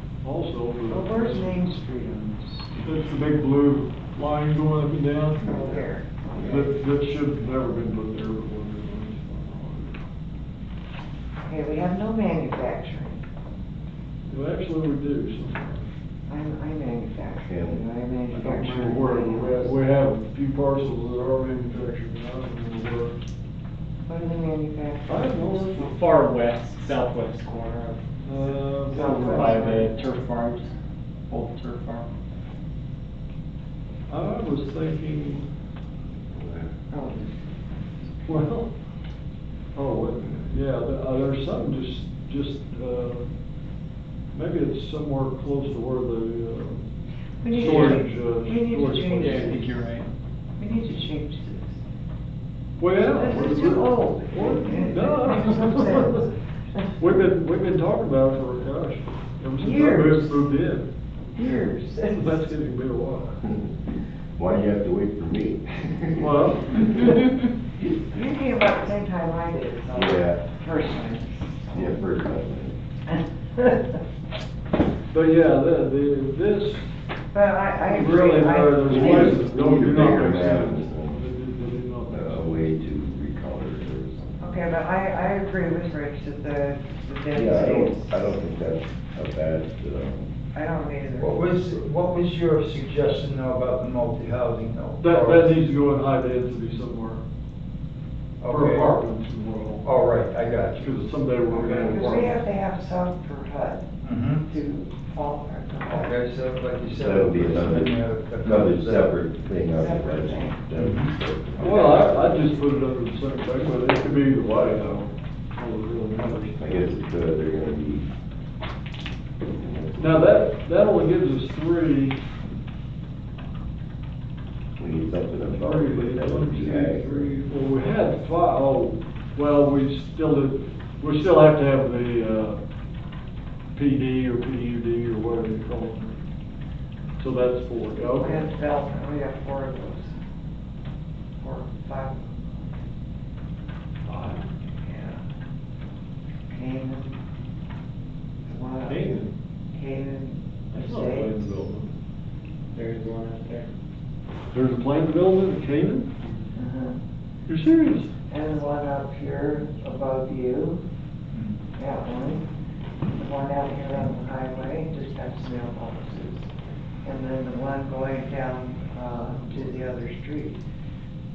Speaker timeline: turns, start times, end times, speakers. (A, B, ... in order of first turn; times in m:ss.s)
0:00.2-0:01.6 A
0:00.9-0:02.8 B
0:02.8-0:05.8 A
0:05.4-0:06.7 B
0:06.4-0:10.0 A
0:11.4-0:13.2 B
0:14.3-0:15.9 A
0:16.3-0:19.8 B
0:17.4-0:17.8 C
0:18.3-0:23.2 A
0:24.0-0:26.0 B
0:25.1-0:25.8 A
0:25.8-0:28.0 D
0:28.2-0:29.7 A
0:28.9-0:29.9 B
0:29.0-0:30.7 D
0:31.3-0:32.1 D
0:34.1-0:35.5 A
0:36.4-0:36.6 C
0:36.9-0:38.4 B
0:38.2-0:38.7 A
0:39.7-0:43.2 A
0:44.3-0:46.9 A
0:47.4-0:49.9 B
0:47.5-0:49.8 A
0:49.2-0:50.1 D
0:50.6-0:51.8 B
0:52.8-0:56.2 A
0:53.0-0:56.9 B
0:57.0-1:00.9 A
0:59.6-1:00.4 B
1:01.3-1:02.4 B
1:02.1-1:03.4 A
1:03.4-1:03.7 C
1:04.4-1:06.9 C
1:06.2-1:07.0 A
1:07.9-1:12.0 B
1:09.9-1:10.4 C
1:11.7-1:12.8 C
1:13.6-1:13.8 B
1:15.1-1:16.8 A
1:17.3-1:19.4 B
1:17.8-1:22.7 A
1:18.8-1:21.2 C
1:22.1-1:24.2 C
1:24.4-1:28.1 B
1:27.3-1:30.3 C
1:30.5-1:31.5 B
1:31.2-1:35.5 E
1:35.0-1:37.2 A
1:38.4-1:39.0 E
1:38.4-1:39.9 A
1:39.8-1:42.1 E
1:40.8-1:42.4 A
1:41.5-1:43.9 B
1:44.0-1:44.4 E
1:44.4-1:46.2 B
1:45.8-1:49.1 E
1:46.9-1:52.3 C
1:49.7-1:50.6 B
1:50.8-1:51.1 E
1:51.6-1:56.7 A
1:51.7-1:52.0 B
1:56.6-1:58.1 C
1:59.4-2:00.3 C
2:00.0-2:02.2 A
2:04.8-2:07.3 C
2:05.5-2:12.6 A
2:13.7-2:16.2 A
2:17.2-2:18.4 A
2:18.0-2:20.1 B
2:21.4-2:22.8 B
2:24.0-2:24.4 A
2:24.8-2:25.2 B
2:26.5-2:27.1 B
2:28.4-2:31.5 B
2:28.8-2:29.3 A
2:30.7-2:31.9 A
2:32.7-2:33.7 D
2:34.5-2:36.4 A
2:36.5-2:37.0 B
2:37.5-2:38.1 A
2:38.3-2:40.8 B
2:41.3-2:41.6 E
2:41.8-2:42.4 B
2:43.1-2:46.5 B
2:47.0-2:50.6 B